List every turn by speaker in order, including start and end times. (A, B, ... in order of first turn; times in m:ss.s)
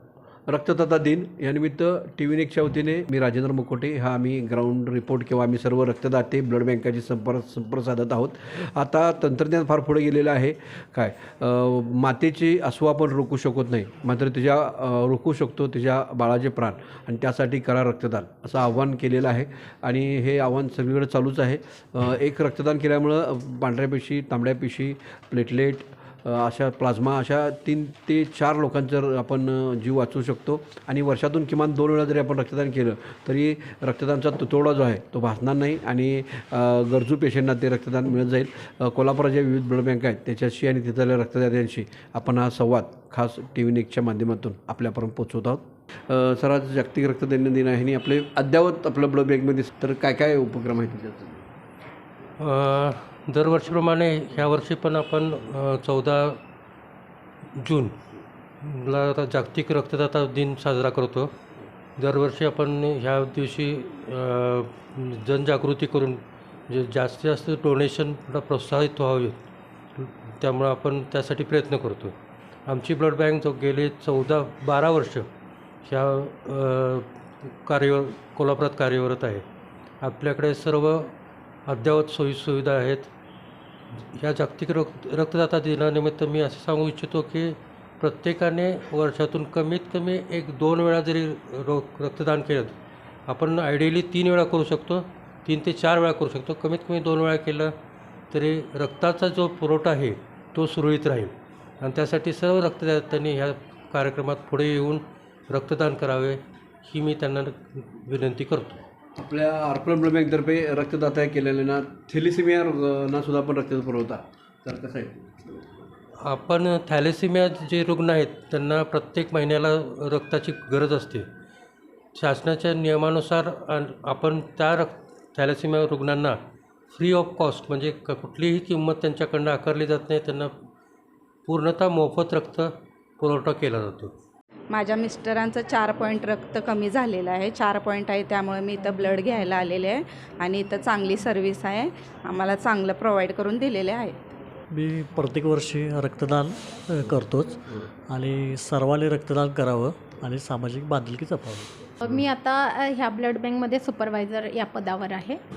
0:00.5-0:51.4 A
0:52.4-0:56.4 B
0:57.6-0:57.9 B
0:58.6-1:01.3 B
1:02.0-1:09.4 B
1:10.0-1:12.1 B
1:12.7-1:15.3 B
1:15.8-1:19.4 B
1:20.0-1:21.1 B
1:21.7-1:23.1 B
1:24.1-1:32.7 B
1:33.3-1:37.7 B
1:38.3-1:48.8 B
1:49.2-1:55.2 A
1:56.2-2:01.3 B
2:02.2-2:06.4 B
2:06.9-2:10.5 B
2:11.5-2:14.1 B
2:14.7-2:24.2 C
2:24.7-2:27.5 D
2:28.1-2:31.6 D
2:32.0-2:35.4 E